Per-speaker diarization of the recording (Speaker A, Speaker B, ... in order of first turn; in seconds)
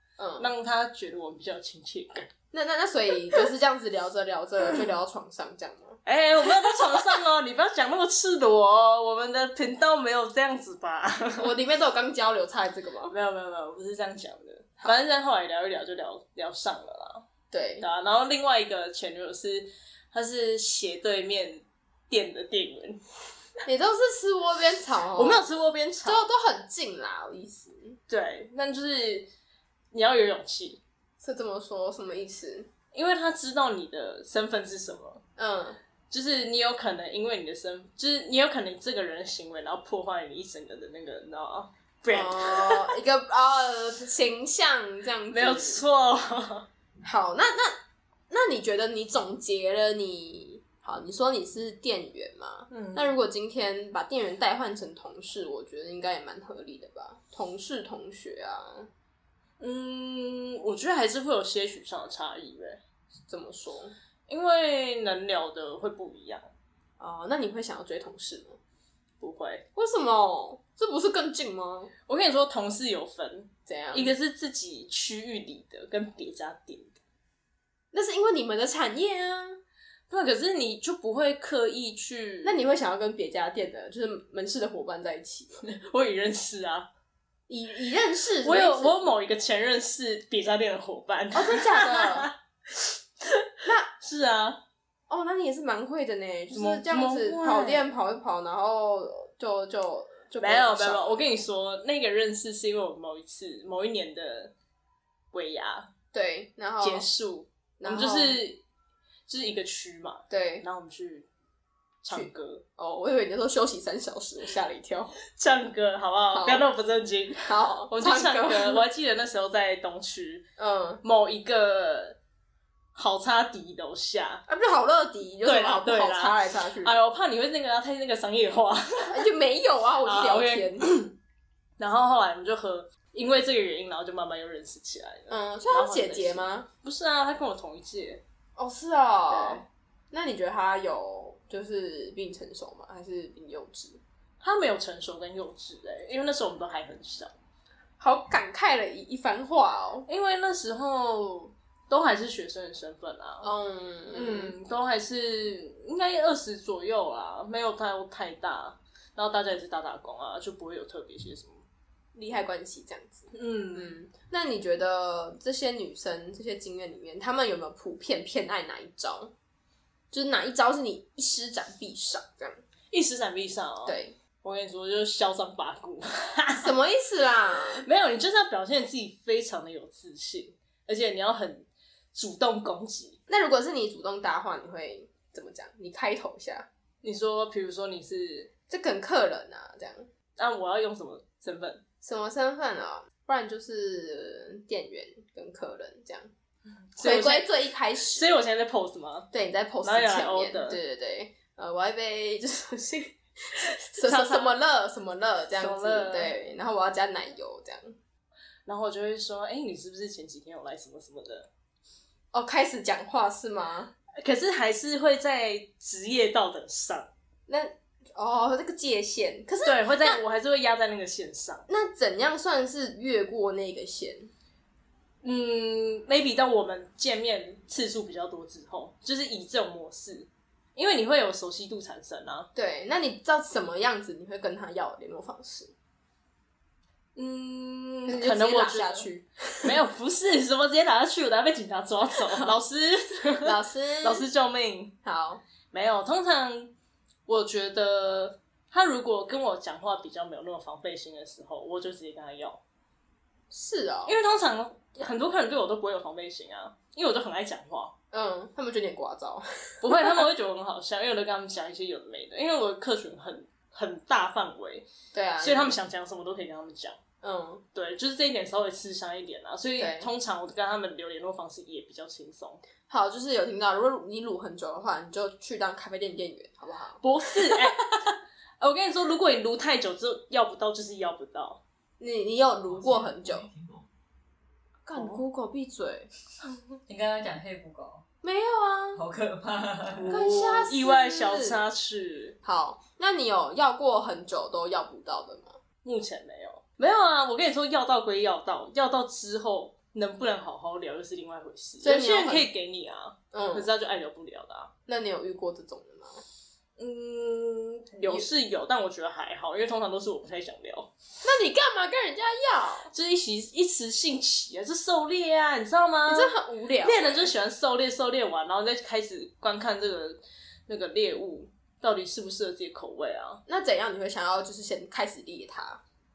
Speaker A: 0.2-0.5, 2.5-7.0, 11.4-13.1, 17.5-17.9, 23.6-25.4, 26.0-28.0, 31.2-32.7, 35.4-35.8, 42.1-45.8, 47.0-47.8, 48.3-58.9, 63.3-63.9, 67.0-68.6, 69.7-71.9, 73.7-74.1, 77.9-79.6, 82.4-85.6, 87.5-89.0, 91.3-92.3, 93.6-93.9, 95.1-101.2, 106.1-107.1, 107.8-108.4, 110.3-110.6, 112.1-115.2, 116.3-116.7, 117.4-118.8, 120.6-121.0, 124.5-126.9, 129.1-130.9, 135.3-136.7, 138.6-144.0, 148.0-150.1, 153.4-154.5, 162.1-169.3, 170.1-172.6, 173.8-174.2, 176.6-177.8, 183.3-186.7, 188.7-190.1, 192.0-196.3, 197.0-198.3, 199.3-207.9, 212.3-213.9, 217.5-220.2, 221.7-224.3, 232.5-235.7, 238.1-239.8, 243.4-244.2, 245.0-245.4, 253.5-254.2, 258.1-260.2, 265.1-265.7, 267.2-267.6, 269.8-270.1, 272.9-278.1, 282.0-283.5, 284.8-286.1, 288.2-289.0, 290.1-291.6, 292.4-295.6, 301.8-302.5, 303.3-303.7, 304.9-306.2, 311.2-312.9, 316.1-317.3, 323.5-325.8
Speaker B: 0.4-2.3, 6.0-11.5, 13.1-17.2, 17.8-23.0, 25.1-26.2, 28.1-29.3, 29.9-30.8, 32.9-35.2, 36.1-43.0, 45.3-46.7, 52.7-53.1, 59.6-62.8, 64.3-66.5, 69.2-69.7, 72.1-77.0, 80.1-82.6, 85.6-86.9, 88.4-94.6, 96.5-97.9, 100.4-104.5, 105.3-105.9, 106.8-108.6, 109.3-111.3, 112.0-112.6, 115.2-120.5, 121.0-122.2, 122.9-124.4, 125.4-129.2, 130.0-131.2, 131.8-138.2, 139.3-139.6, 144.4-147.3, 150.1-153.5, 154.1-161.6, 163.3-163.9, 172.9-176.7, 177.7-183.2, 187.0-188.5, 190.4-191.8, 196.9-197.5, 198.1-199.3, 199.8-200.8, 204.0-204.6, 205.5-206.3, 208.7-211.5, 214.2-217.1, 219.6-221.7, 225.2-232.5, 237.2-239.1, 239.6-244.9, 245.7-246.7, 247.3-252.6, 254.1-257.9, 259.8-264.9, 265.4-267.0, 267.7-272.6, 277.0-277.8, 278.6-281.6, 284.9-285.2, 289.9-292.4, 295.8-304.7, 306.8-310.9, 312.9-323.4
Speaker C: 282.7-283.9, 286.9-288.0, 288.9-290.1